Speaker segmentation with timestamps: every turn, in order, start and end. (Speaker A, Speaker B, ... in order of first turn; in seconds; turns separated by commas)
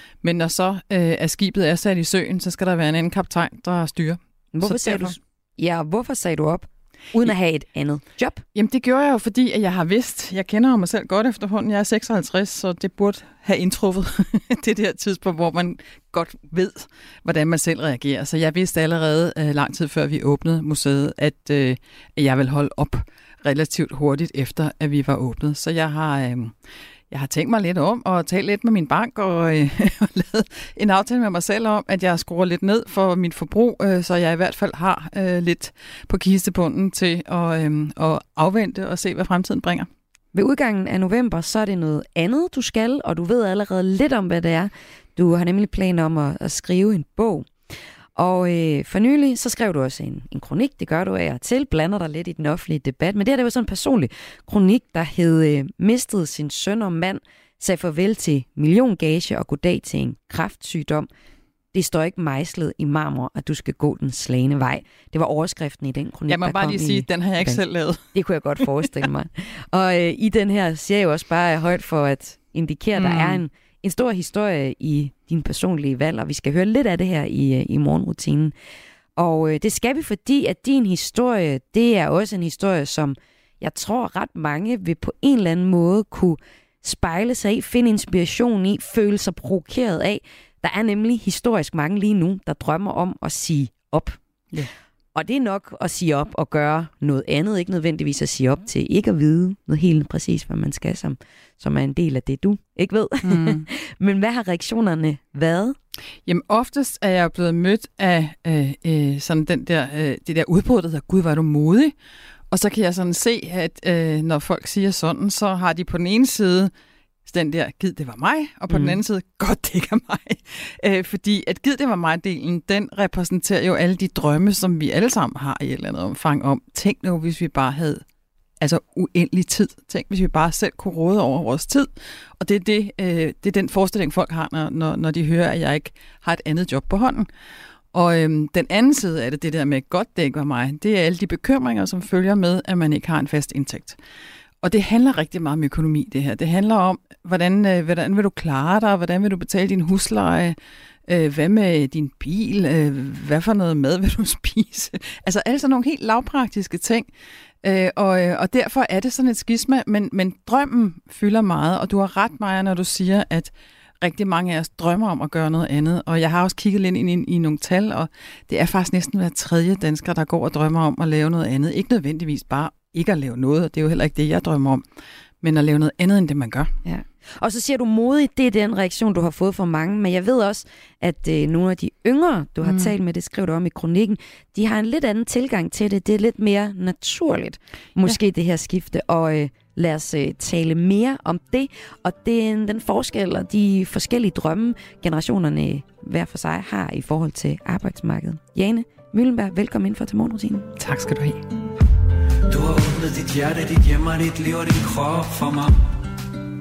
Speaker A: 0.2-5.2, Speaker B: 4.5-8.4, Speaker A: 8.5-26.5, Speaker A: 27.1-39.9, Speaker B: 40.3-47.5, Speaker B: 48.1-61.1, Speaker B: 61.7-67.6, Speaker A: 66.3-68.0, Speaker B: 68.1-78.5, Speaker A: 68.6-69.0, Speaker A: 72.9-73.4, Speaker B: 79.2-94.2, Speaker B: 95.1-105.8, Speaker A: 103.2-103.7, Speaker A: 106.2-111.9, Speaker A: 112.5-116.7, Speaker A: 117.2-128.0, Speaker B: 118.7-119.0, Speaker A: 128.6-137.3, Speaker A: 137.9-144.0, Speaker A: 144.6-157.1, Speaker A: 157.6-174.8, Speaker A: 175.4-176.7, Speaker B: 176.8-200.7, Speaker A: 182.6-182.9, Speaker A: 200.8-201.4, Speaker C: 202.5-205.8